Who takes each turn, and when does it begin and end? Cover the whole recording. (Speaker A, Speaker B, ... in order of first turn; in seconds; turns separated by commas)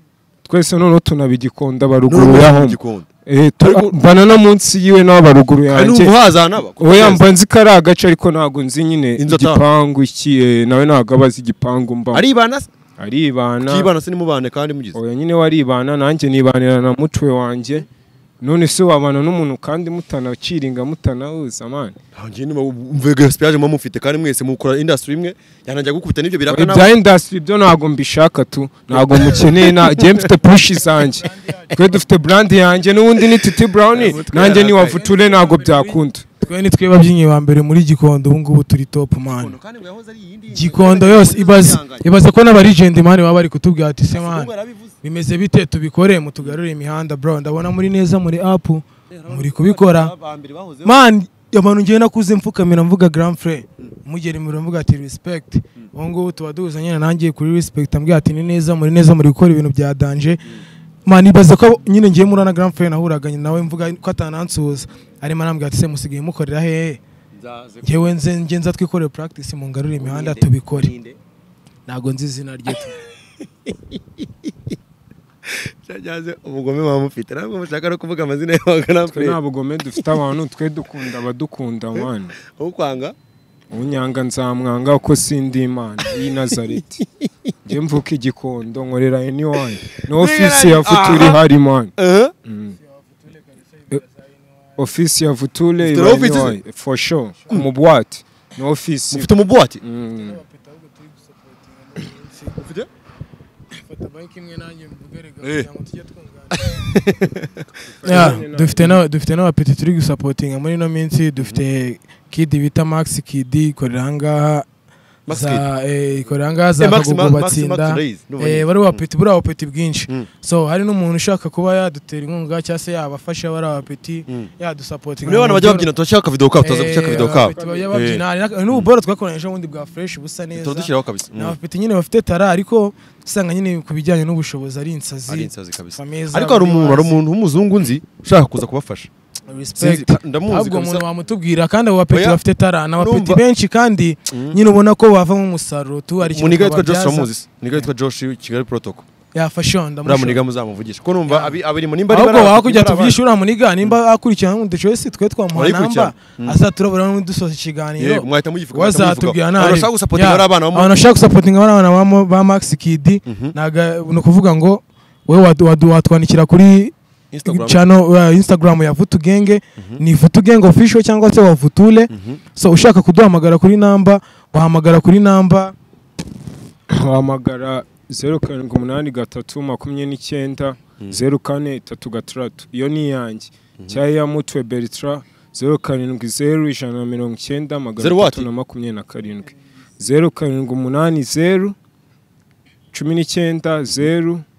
Speaker A: 0.5-6.1, Speaker B: 2.0-3.1, Speaker B: 3.6-4.0, Speaker B: 5.7-7.2, Speaker A: 6.8-12.2, Speaker B: 9.2-9.6, Speaker B: 12.1-12.7, Speaker A: 13.0-13.9, Speaker B: 13.6-15.0, Speaker A: 14.9-17.9, Speaker A: 18.4-22.0, Speaker B: 22.1-26.9, Speaker A: 26.5-36.2, Speaker B: 28.9-30.3, Speaker B: 33.9-35.1, Speaker C: 34.9-39.5, Speaker B: 39.3-42.1, Speaker C: 40.5-44.5, Speaker B: 44.1-44.9, Speaker C: 45.0-50.1, Speaker B: 49.1-51.0, Speaker C: 50.8-60.4, Speaker C: 61.0-67.0, Speaker B: 67.3-68.1, Speaker C: 67.8-70.9, Speaker B: 70.0-71.2, Speaker C: 71.9-73.0, Speaker B: 73.7-74.5, Speaker B: 75.4-79.4, Speaker A: 79.1-82.3, Speaker B: 82.0-83.1, Speaker A: 83.7-87.0, Speaker B: 87.0-87.3, Speaker A: 87.7-91.9, Speaker B: 90.1-91.4, Speaker B: 92.0-92.3, Speaker A: 92.5-92.7, Speaker A: 94.8-100.4, Speaker B: 95.8-96.6, Speaker B: 99.1-99.8, Speaker C: 100.2-102.5, Speaker B: 102.6-102.9, Speaker C: 103.7-106.5, Speaker B: 105.4-105.7, Speaker B: 106.5-108.3, Speaker A: 108.0-109.0, Speaker C: 108.0-114.7, Speaker B: 111.4-111.6, Speaker B: 115.3-115.6, Speaker C: 115.3-125.9, Speaker B: 116.8-119.0, Speaker B: 125.2-128.8, Speaker C: 126.6-137.2, Speaker A: 127.2-128.1, Speaker B: 130.5-131.6, Speaker B: 135.3-139.1, Speaker C: 139.5-147.3, Speaker B: 139.8-141.0, Speaker B: 142.1-142.4, Speaker B: 143.0-143.4, Speaker B: 144.3-144.6, Speaker B: 146.2-149.0, Speaker C: 149.3-150.4, Speaker B: 150.0-153.2, Speaker C: 151.3-151.6, Speaker C: 152.1-166.9, Speaker B: 155.5-156.6, Speaker B: 158.0-160.9, Speaker B: 163.3-163.5, Speaker B: 167.3-167.8, Speaker C: 167.4-175.7, Speaker B: 172.1-172.4, Speaker A: 176.9-191.8, Speaker B: 188.0-188.5, Speaker A: 192.9-194.4